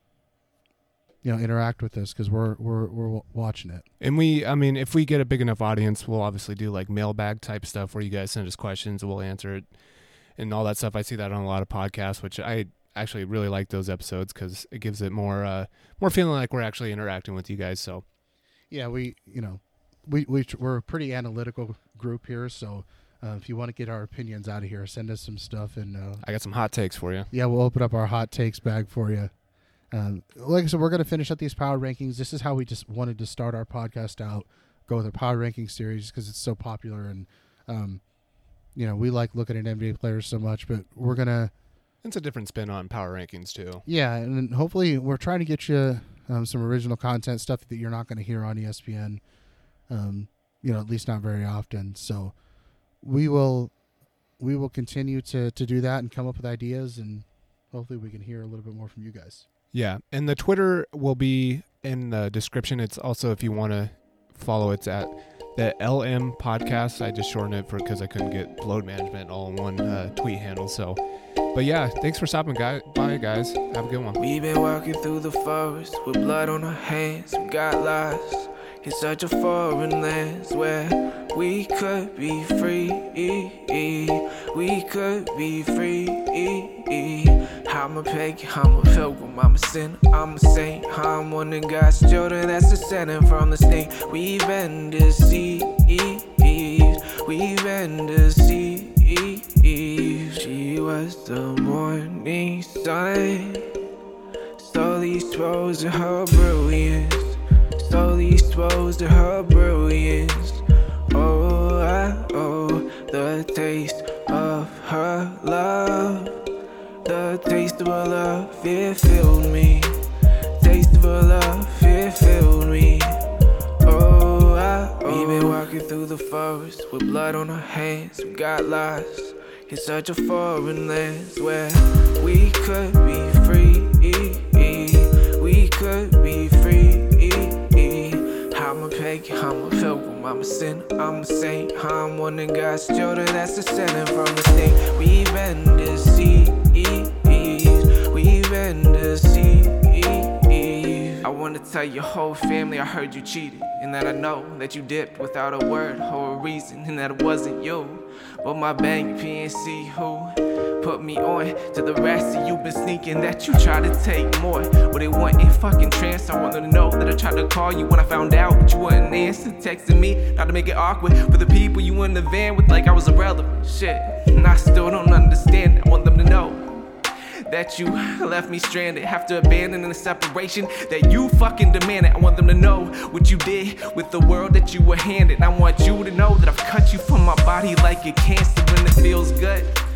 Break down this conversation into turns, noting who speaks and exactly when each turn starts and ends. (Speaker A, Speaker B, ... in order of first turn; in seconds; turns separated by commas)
Speaker A: 1.2-3.9, Speaker B: 4.0-9.7, Speaker B: 10.4-18.0, Speaker A: 18.7-26.2, Speaker B: 26.2-27.3, Speaker A: 27.3-29.3, Speaker A: 29.9-38.0, Speaker A: 38.8-41.5, Speaker B: 42.0-43.9, Speaker A: 43.9-49.2, Speaker A: 49.9-52.4, Speaker A: 53.0-53.7, Speaker A: 54.4-59.5, Speaker B: 59.7-71.0, Speaker B: 71.5-74.2, Speaker C: 74.2-103.8, Speaker C: 104.6-116.4, Speaker C: 117.0-120.0, Speaker C: 120.6-123.2, Speaker C: 123.8-176.7, Speaker C: 177.5-189.7